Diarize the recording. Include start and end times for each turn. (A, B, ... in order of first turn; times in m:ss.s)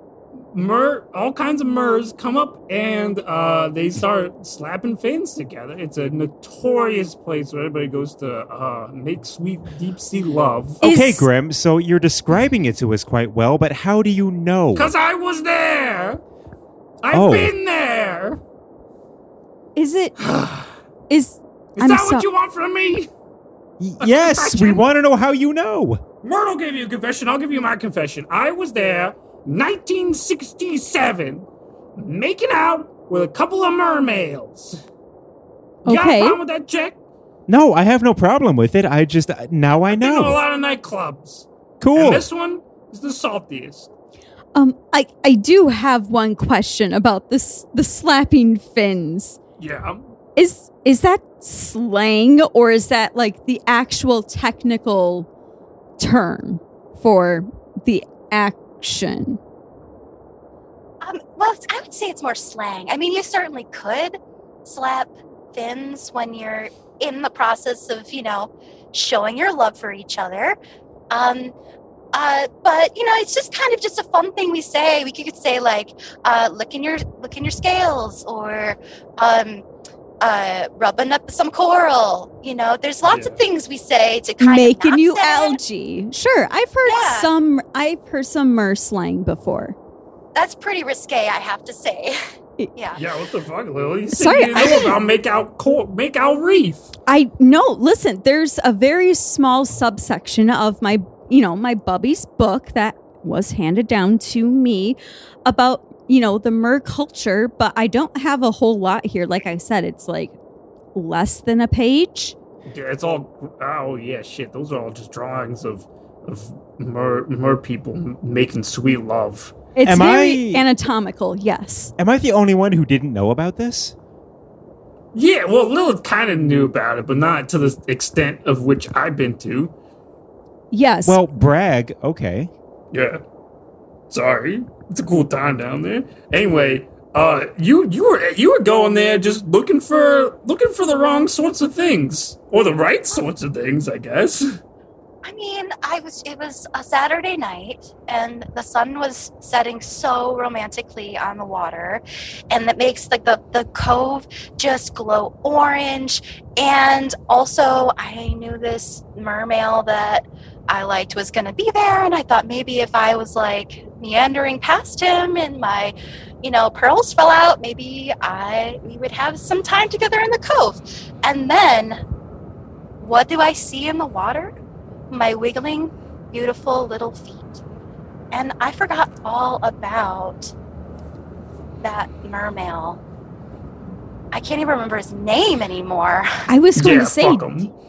0:00.5-0:10.8 A
0:10.8-0:11.3 B
0:10.8-0:14.9 C
0:14.7-0:16.2 A
0:17.0-0:18.4 A
0:17.1-0:17.5 C
0:19.8-0:20.1 B
0:20.2-0:20.7 A
0:21.1-0:22.2 B
0:21.8-0:23.1 A
0:23.8-0:26.0 C
0:24.0-0:24.8 A
0:26.2-0:34.8 A
0:35.8-0:36.4 B
0:35.8-0:37.0 A
0:37.5-0:40.4 C
0:39.9-0:43.9 A
0:41.8-0:42.3 C
0:44.5-0:49.4 B
0:49.6-0:50.0 A
0:50.4-0:55.3 B
0:56.0-0:59.4 B
1:01.0-1:10.6 D
1:11.1-1:11.5 D
1:12.1-1:19.6 D
1:20.2-1:25.6 D
1:23.0-1:23.4 A
1:24.4-1:29.8 B
1:26.8-1:27.3 D
1:30.3-1:32.2 D
1:32.7-1:33.0 D
1:33.0-1:36.9 A
1:34.1-1:34.9 B
1:34.5-1:34.9 D
1:37.1-1:50.3 B
1:50.9-1:52.4 B
1:52.7-1:59.5 A
1:59.7-2:01.9 B
1:59.8-2:00.6 C
2:02.0-2:03.9 C
2:05.1-2:09.7 A
2:10.7-2:11.2 B
2:11.0-2:12.5 C
2:12.9-2:13.2 A
2:14.1-2:24.5 A
2:25.2-2:52.0 D
2:53.0-2:54.5 D
2:55.1-2:57.6 D
2:58.3-3:00.5 D
3:01.8-3:03.0 D
3:04.3-3:06.3 D
3:06.5-3:07.5 B
3:06.8-3:07.7 A